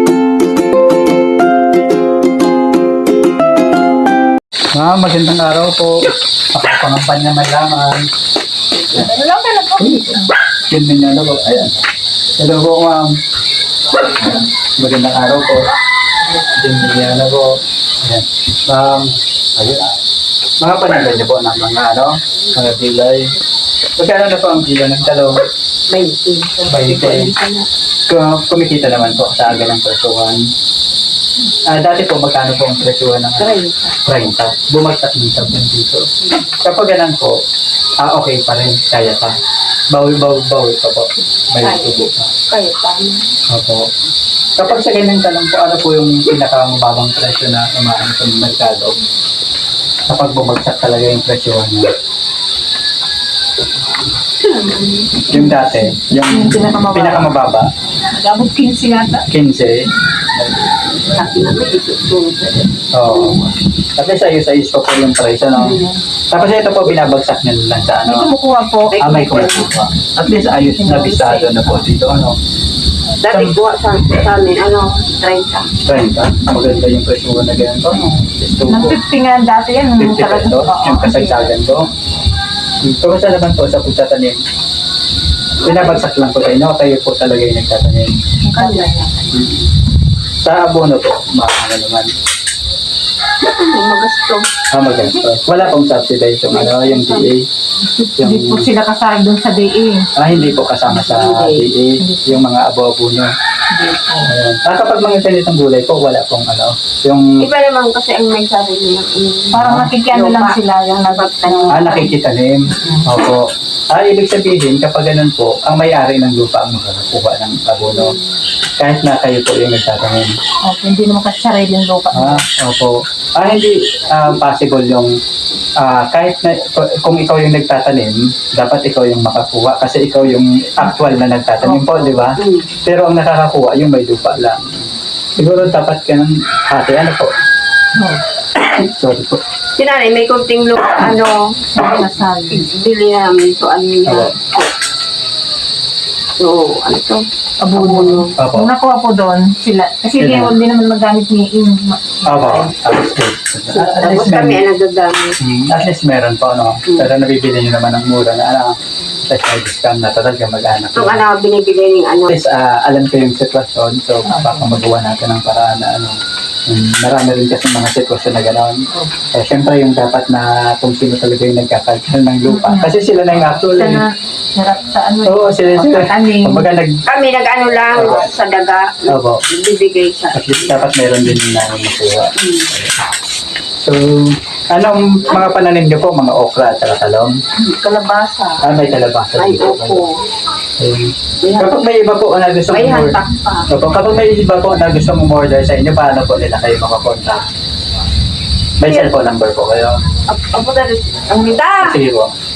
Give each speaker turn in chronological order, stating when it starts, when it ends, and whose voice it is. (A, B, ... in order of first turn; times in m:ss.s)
0:04.8-0:08.1 A
0:08.9-0:10.3 B
0:09.8-0:11.8 A
0:12.4-0:13.2 A
0:14.0-0:15.7 A
0:16.4-0:20.0 A
0:20.6-0:23.3 A
0:24.0-0:25.4 A
0:25.9-0:27.7 C
0:26.7-0:27.3 A
0:28.1-0:30.5 A
0:31.7-0:37.4 A
0:33.4-0:34.0 C
0:38.0-0:39.4 A
0:39.9-0:42.4 A
0:41.6-0:43.3 C
0:43.5-0:43.9 A
0:44.6-0:49.0 A
0:50.1-0:51.9 A
0:54.4-0:55.3 C
0:55.3-0:57.7 A
0:56.3-0:57.3 B
0:58.1-0:59.3 B
0:59.3-1:00.6 A
1:01.1-1:03.6 C
1:02.9-1:03.4 A
1:04.0-1:08.3 A
1:05.6-1:06.0 C
1:08.1-1:09.1 B
1:08.9-1:09.7 C
1:09.0-1:12.4 A
1:10.5-1:11.8 B
1:13.2-1:15.7 C
1:15.8-1:19.0 A
1:18.7-1:21.5 B
1:20.0-1:21.9 A
1:22.8-1:24.4 A
1:25.6-1:28.2 A
1:28.4-1:29.0 B
1:28.5-1:29.5 C
1:29.3-1:29.7 A
1:30.4-1:32.1 A
1:33.4-1:34.5 C
1:34.7-1:37.4 A
1:36.5-1:37.3 C
1:38.0-1:40.1 B
1:38.2-1:38.7 A
1:40.2-1:43.3 A
1:40.9-1:41.7 C
1:42.0-1:42.4 B
1:43.7-1:44.3 B
1:44.2-1:47.4 A
1:47.4-1:52.1 C
1:49.5-1:49.9 A
1:49.5-1:52.1 B
1:51.7-1:58.1 A
1:57.9-1:58.3 C
1:58.8-2:00.3 A
2:00.7-2:02.5 B
2:02.1-2:05.1 A
2:05.8-2:14.8 A
2:11.8-2:12.8 C
2:15.4-2:17.3 A
2:18.0-2:18.2 B
2:18.6-2:19.4 A
2:19.8-2:24.7 C
2:21.8-2:22.6 B
2:24.1-2:24.3 A
2:26.4-2:27.2 C
2:27.6-2:32.7 B
2:27.8-2:28.3 C
2:28.4-2:28.7 A
2:30.2-2:30.5 A
2:32.3-2:34.6 A
2:33.8-2:35.4 C
2:33.8-2:34.2 B
2:35.4-2:38.7 A
2:39.2-2:41.3 A
2:41.0-2:42.3 C
2:42.3-2:54.0 A
2:44.2-2:44.7 B
2:52.5-2:53.0 B
2:53.6-2:56.7 B
2:55.2-2:57.0 A
2:57.1-3:00.9 C
2:57.9-2:58.3 A
2:59.1-2:59.4 A
3:00.3-3:03.0 A
3:02.4-3:02.7 C
3:03.8-3:07.4 A
3:07.5-3:08.7 C
3:08.6-3:10.1 A
3:09.4-3:10.3 C
3:10.8-3:13.2 A
3:11.4-3:11.8 C
3:12.7-3:13.7 C
3:13.7-3:17.5 A
3:18.8-3:20.0 A
3:18.8-3:19.2 C
3:20.3-3:22.0 C
3:21.8-3:22.4 A